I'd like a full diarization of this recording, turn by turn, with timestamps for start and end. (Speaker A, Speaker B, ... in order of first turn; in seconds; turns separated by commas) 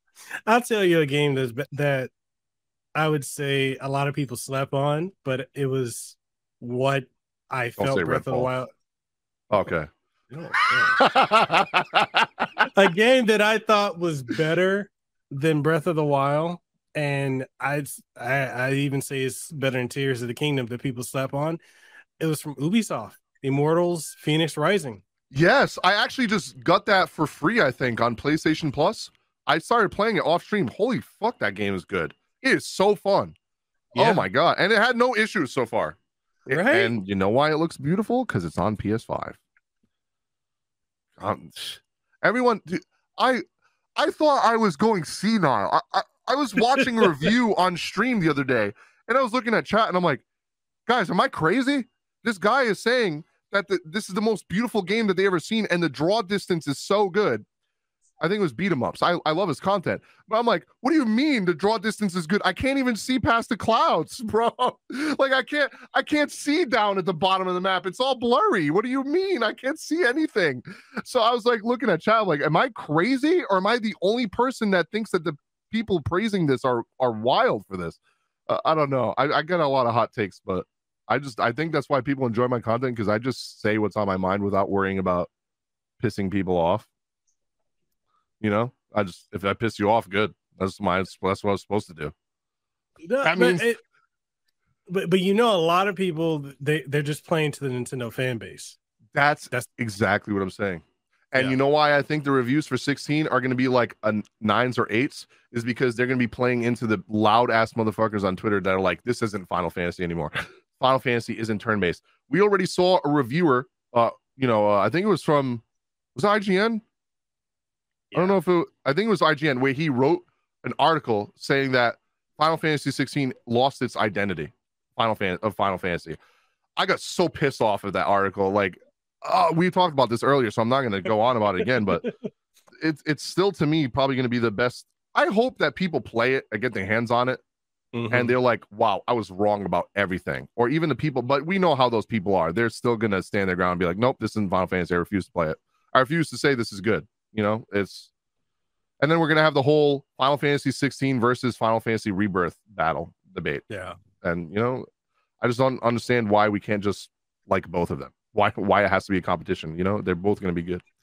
Speaker A: 0.5-2.1, Speaker A: 3.0-8.7, Speaker B: 7.8-8.5, Speaker B: 9.5-9.9, Speaker A: 10.3-11.0, Speaker B: 11.0-12.7, Speaker A: 12.7-21.6, Speaker A: 22.2-25.0, Speaker B: 25.3-33.4, Speaker A: 34.0-34.3, Speaker B: 34.0-36.0, Speaker A: 36.5-36.9, Speaker B: 36.5-39.4, Speaker B: 41.2-43.4, Speaker B: 44.0-50.2, Speaker B: 50.9-57.5, Speaker B: 58.2-85.3, Speaker B: 86.0-86.9, Speaker B: 88.4-92.1, Speaker A: 93.1-93.8, Speaker B: 93.2-93.7, Speaker A: 94.9-98.8, Speaker B: 99.1-115.6, Speaker B: 116.2-116.8, Speaker A: 118.1-118.4, Speaker B: 118.1-126.2, Speaker B: 126.8-132.1, Speaker B: 132.8-137.4, Speaker A: 137.9-138.3, Speaker B: 138.1-148.1, Speaker B: 149.0-154.9, Speaker A: 153.7-154.0, Speaker B: 155.4-160.8